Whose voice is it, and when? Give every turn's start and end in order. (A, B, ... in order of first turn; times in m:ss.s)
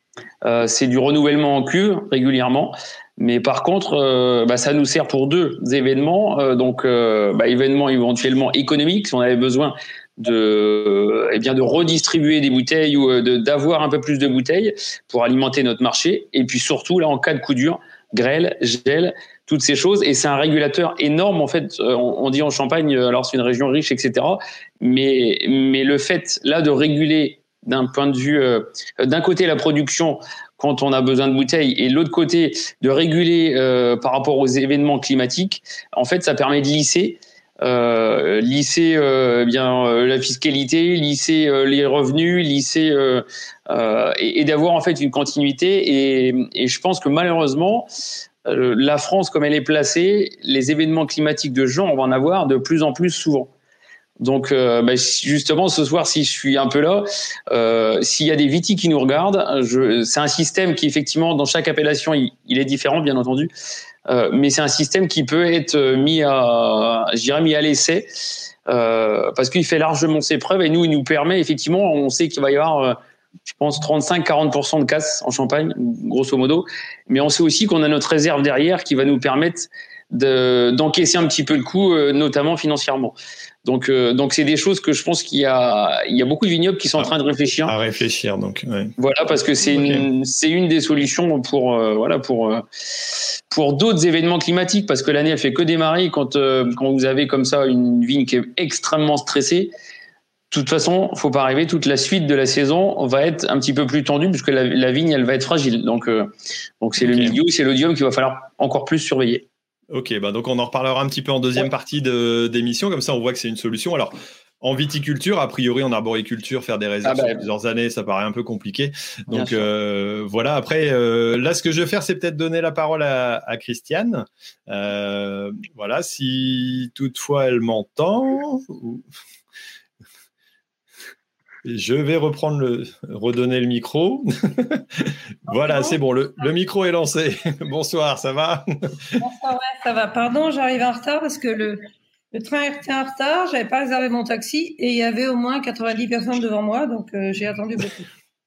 0:00.4-0:47.9 A
0:48.4-0:53.5 A
0:54.2-1:03.5 A
1:04.1-1:08.1 A
1:08.7-1:27.7 A
1:27.6-1:28.9 B
1:29.0-1:39.7 A
1:29.6-1:30.0 B
1:40.5-1:49.4 A
1:47.0-1:47.4 B
1:49.9-2:09.0 B
1:57.0-1:57.4 A
1:59.3-1:59.7 A
2:11.6-2:19.1 B
2:15.5-2:16.0 C
2:19.2-2:28.1 C